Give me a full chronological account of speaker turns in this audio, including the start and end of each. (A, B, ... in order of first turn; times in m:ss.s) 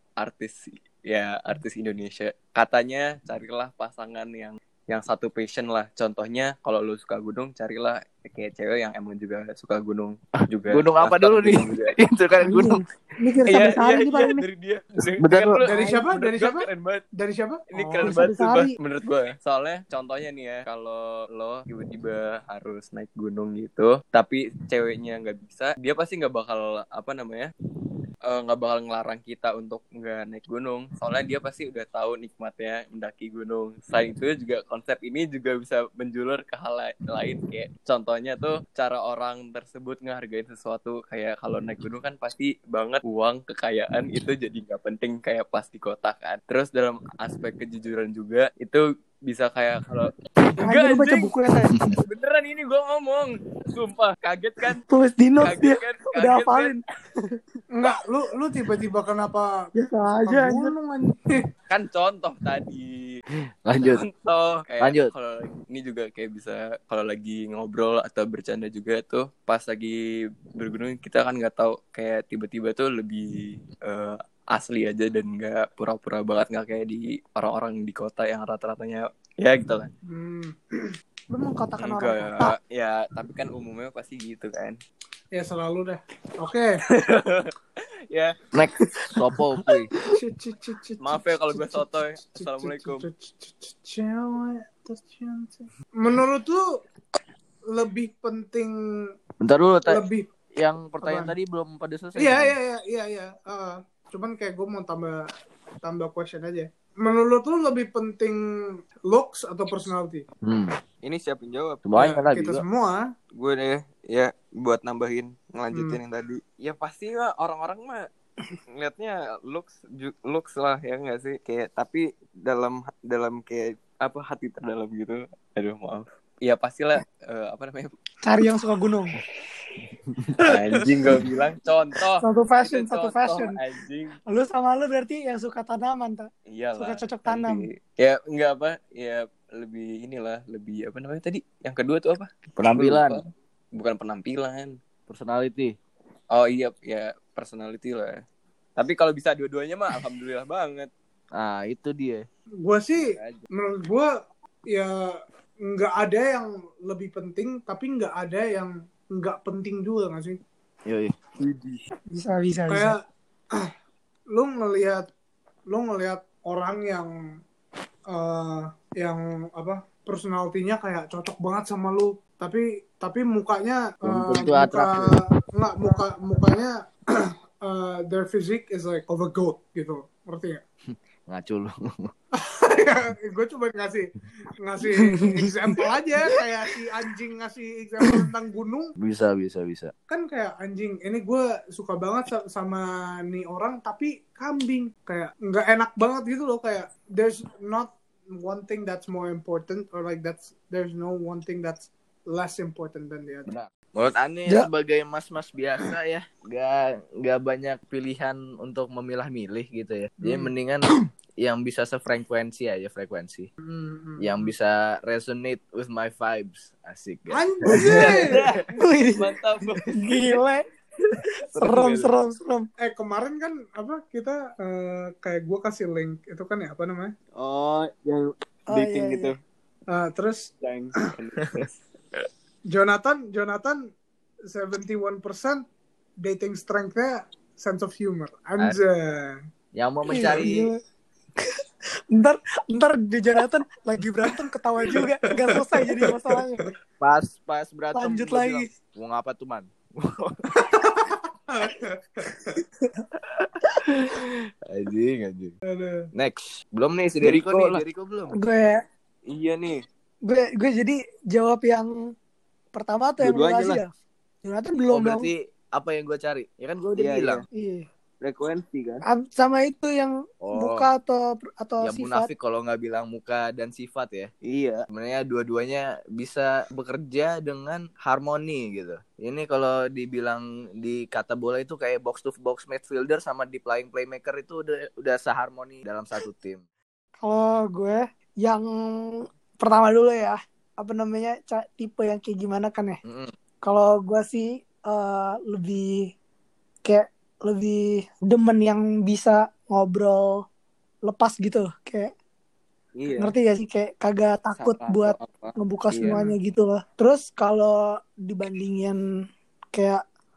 0:00.2-0:11.9 A
0:10.7-0:12.8 B
0:12.4-0:14.4 C
0:13.4-0:17.0 A
0:15.2-0:15.6 B
0:15.6-0:18.2 D
0:15.7-0:16.0 C
0:17.7-0:27.5 A
0:18.0-0:18.7 C
0:28.3-0:51.4 A
0:50.6-0:51.8 C
0:52.0-0:54.8 A
0:54.9-0:56.8 C
0:55.4-0:56.7 A
0:57.7-0:59.7 D
0:59.7-1:00.7 C
1:00.2-1:01.4 D
1:01.7-1:03.2 A
1:03.6-1:04.0 B
1:03.8-1:19.9 A
1:04.8-1:05.1 B
1:20.1-1:20.9 D
1:21.3-1:22.5 C
1:21.8-1:24.8 A
1:25.3-1:26.8 D
1:26.9-1:27.5 A
1:28.1-1:28.4 A
1:28.5-1:29.9 B
1:30.1-1:36.6 D
1:31.0-1:33.0 A
1:37.7-1:39.1 D
1:39.4-1:40.0 B
1:39.8-1:40.2 D
1:40.6-1:42.5 B
1:41.0-1:41.3 D
1:42.2-1:45.3 D
1:45.8-1:50.2 D
1:50.4-1:50.8 B
1:51.0-1:51.8 A
1:51.8-1:52.6 B
1:52.0-1:53.1 D
1:53.3-1:58.1 A
1:55.7-1:56.0 D
1:58.8-2:07.9 A
2:08.2-2:09.2 C
2:10.1-2:10.3 B
2:10.4-2:14.2 A
2:12.2-2:13.6 C
2:14.3-2:17.7 C
2:16.5-2:24.8 A
2:22.6-2:23.2 B
2:25.1-2:25.8 B
2:26.3-2:28.2 A
2:28.8-2:30.9 A
2:31.3-2:32.2 B
2:32.6-2:34.1 D
2:33.0-2:33.4 B
2:34.7-2:40.4 D
2:40.8-2:41.1 B
2:41.4-2:41.8 A
2:42.1-2:43.0 C
2:42.7-2:43.7 D
2:44.3-2:45.1 D
2:45.7-2:47.1 D
2:48.1-3:00.6 D
2:54.0-2:55.2 B
3:01.3-3:02.1 B
3:02.3-3:08.9 D
3:09.0-3:09.9 B
3:10.1-3:23.5 D
3:23.5-3:33.5 B
3:30.2-3:30.5 D
3:33.6-3:34.5 D
3:34.2-3:38.5 B
3:37.3-3:38.6 D
3:37.7-3:40.1 A
3:38.8-3:39.3 C
3:39.9-3:40.6 C
3:41.5-3:42.1 A
3:41.5-3:42.7 C
3:42.8-3:47.1 D
3:47.4-3:49.4 A
3:48.7-3:49.3 C
3:49.9-3:50.5 D
3:50.6-3:51.8 A
3:52.7-3:53.9 D
3:54.5-3:55.6 D
3:56.2-3:59.4 D
3:59.7-4:00.7 B
4:00.1-4:00.8 C
4:02.1-4:06.6 C
4:04.9-4:06.7 D
4:07.0-4:10.5 B
4:07.9-4:08.7 C
4:10.6-4:12.6 D
4:13.9-4:15.5 B
4:15.6-4:16.1 D
4:16.1-4:18.3 B
4:17.2-4:17.8 A
4:18.3-4:18.8 C
4:19.3-4:19.8 A
4:20.2-4:21.9 C
4:22.7-4:23.9 C
4:23.2-4:23.8 A
4:24.4-4:25.3 C
4:24.9-4:27.4 B
4:27.0-4:27.4 A
4:27.5-4:27.8 C
4:28.2-4:29.0 A
4:29.0-4:32.3 C
4:30.4-4:30.9 B
4:31.8-4:34.3 B
4:34.4-4:34.8 A
4:34.9-4:46.6 B
4:47.2-4:53.0 C
4:53.0-4:53.3 B
4:53.6-4:56.1 C
4:56.8-5:00.4 C
5:01.0-5:02.1 C
5:03.0-5:03.3 A
5:03.2-5:09.0 C
5:04.6-5:06.2 A
5:06.0-5:06.4 D
5:09.7-5:10.0 C